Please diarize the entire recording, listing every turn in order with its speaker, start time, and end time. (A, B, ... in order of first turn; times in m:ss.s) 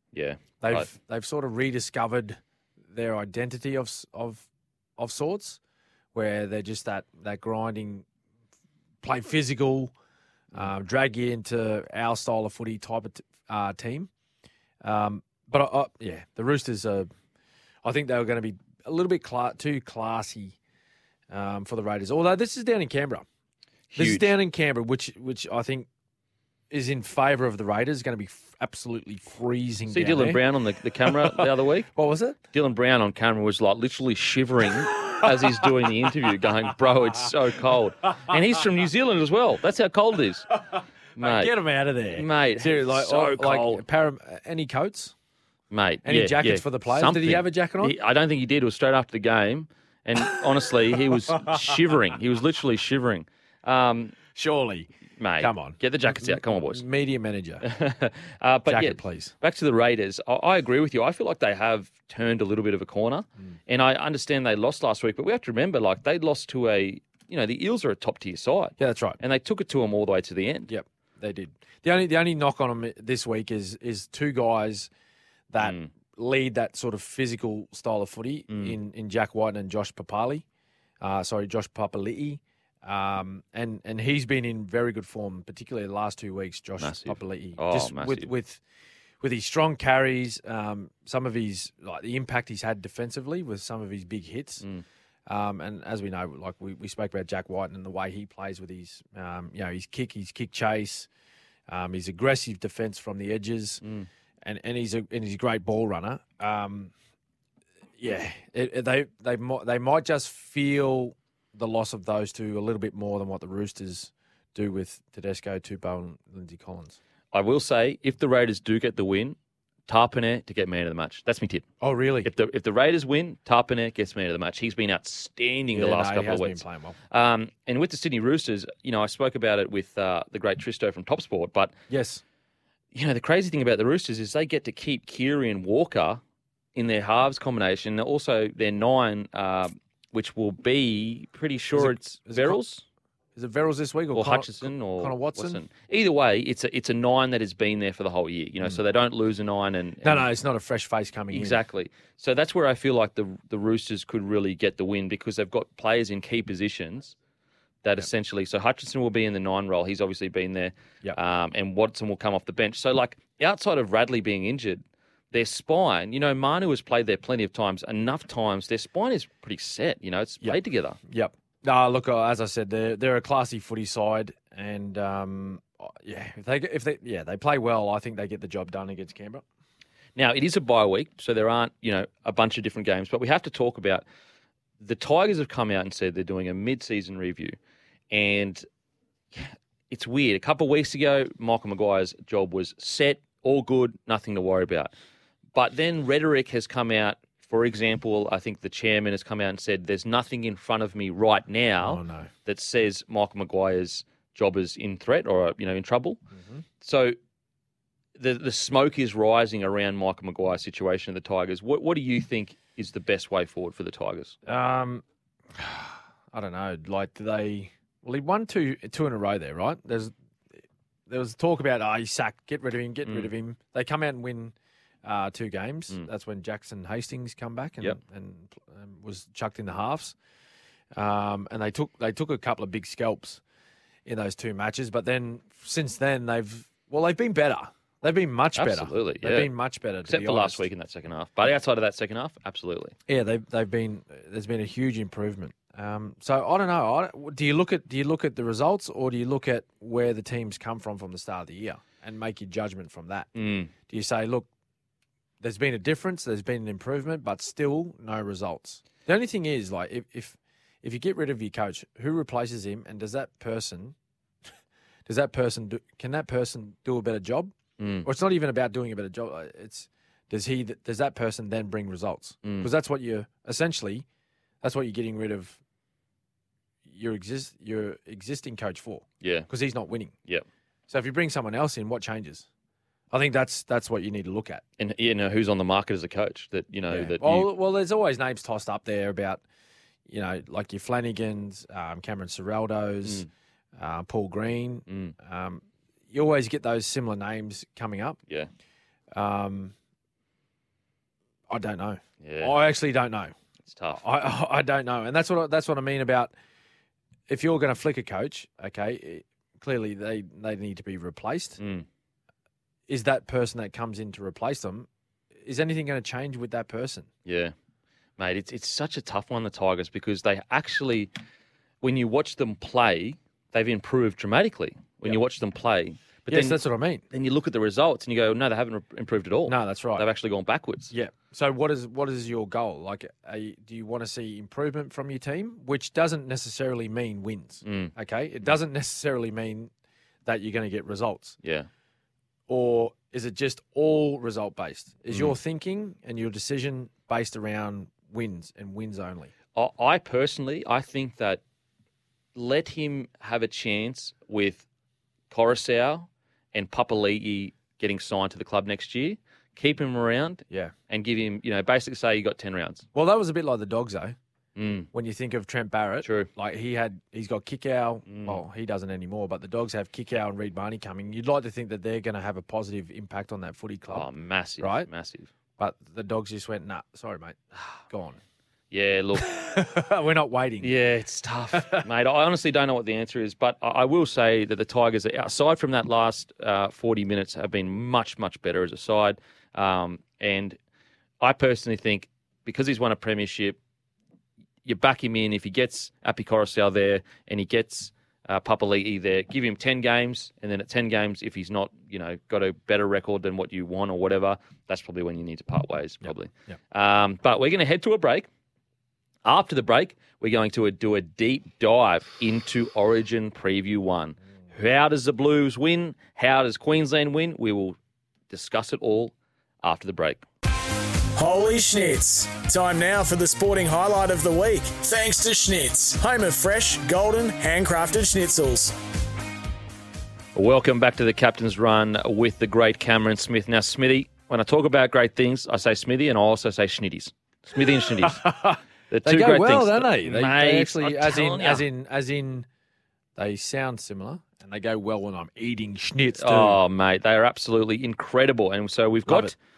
0:00.1-0:00.9 A
0:00.6-0:02.4 B
0:02.9-0:04.4 B
0:05.0-0:05.6 B
0:06.1-0:08.1 B
0:09.0-0:09.9 B
0:10.5-0:14.1 B
0:14.8-0:17.1 B
0:17.8-0:20.6 B
0:21.3-0:23.2 B
0:23.9-0:24.3 A
0:23.9-0:25.9 B
0:26.7-0:30.4 B
0:29.9-0:31.9 A
0:31.0-0:32.4 B
0:32.5-0:40.5 A
0:34.9-0:36.1 B
0:41.2-0:41.5 A
0:41.2-0:45.1 B
0:42.1-0:43.8 A
0:45.7-0:54.2 A
0:46.0-0:47.9 B
0:54.4-0:54.9 B
0:55.2-0:56.8 A
0:55.4-0:57.6 B
0:57.6-1:10.7 A
0:58.7-0:59.3 B
1:08.8-1:09.2 B
1:10.7-1:14.9 B
1:15.5-1:20.4 B
1:15.6-1:15.9 A
1:18.5-1:18.8 A
1:21.0-1:28.6 B
1:26.8-1:28.3 A
1:29.2-1:34.6 B
1:35.3-1:41.1 B
1:41.7-1:43.8 B
1:43.8-1:44.1 A
1:44.4-1:46.9 B
1:48.0-1:57.0 B
1:57.3-2:01.6 A
2:01.8-2:02.3 B
2:02.2-2:11.7 A
2:05.7-2:07.0 B
2:11.9-2:12.2 B
2:12.9-2:16.2 A
2:16.7-2:22.8 A
2:21.7-2:22.6 B
2:23.4-2:25.6 B
2:24.1-2:30.3 A
2:30.0-2:31.6 B
2:31.3-2:37.2 A
2:37.8-2:51.0 A
2:50.4-2:59.4 B
3:00.2-3:04.0 A
3:04.8-3:07.6 A
3:08.1-3:08.6 A
3:09.3-3:14.9 A
3:15.5-3:26.2 A
3:21.8-3:22.3 B
3:26.4-3:26.6 B
3:26.8-3:27.2 A
3:28.2-3:34.4 A
3:34.4-3:40.1 B
3:41.1-3:50.2 B
3:50.9-3:53.4 B
3:54.1-4:00.6 B
3:58.6-3:59.5 A
4:00.1-4:02.9 A
4:03.1-4:14.5 B
4:13.4-4:13.7 A
4:15.4-4:23.9 B
4:25.1-4:34.0 B
4:27.8-4:28.1 A
4:32.4-4:32.7 A
4:34.6-4:35.6 B
4:36.9-4:40.2 B
4:39.2-4:39.5 A
4:40.9-4:42.4 B
4:43.1-4:44.6 B
4:44.8-4:47.5 A
4:46.9-4:49.4 B
4:50.1-4:58.2 B
4:54.9-4:55.2 A
4:59.1-4:59.7 B
5:01.5-5:03.3 B
5:02.2-5:02.6 A
5:03.7-5:04.0 A
5:03.9-5:06.3 B
5:07.3-5:11.6 B
5:11.6-5:11.9 A
5:12.9-5:17.1 B
5:17.2-5:17.5 A
5:18.2-5:21.1 A
5:21.8-5:26.6 A
5:26.3-5:27.0 B
5:27.1-5:30.9 A
5:29.4-5:30.1 B
5:30.9-5:39.7 B
5:37.6-5:37.9 A
5:40.2-5:41.4 B
5:41.4-5:41.7 A
5:42.5-5:49.3 B
5:49.6-5:51.4 A
5:52.4-5:54.6 A
5:55.3-6:02.9 A
6:02.9-6:04.2 B
6:04.6-6:04.9 A
6:04.9-6:14.1 B
6:06.0-6:06.3 A
6:08.1-6:08.4 A
6:13.9-6:15.3 A
6:14.6-6:14.9 B
6:15.6-6:18.2 B
6:18.7-6:19.3 A
6:19.2-6:20.7 B
6:20.6-6:30.6 A
6:21.5-6:21.8 B
6:31.2-6:33.6 A
6:34.6-6:48.3 A
6:46.0-6:46.6 B
6:49.2-6:57.8 A
6:58.3-7:00.3 A
7:01.2-7:08.8 C
7:10.4-7:18.2 A
7:18.0-7:22.5 B
7:18.9-7:21.6 A
7:23.2-7:26.6 B
7:26.2-7:29.4 A
7:29.1-7:29.3 B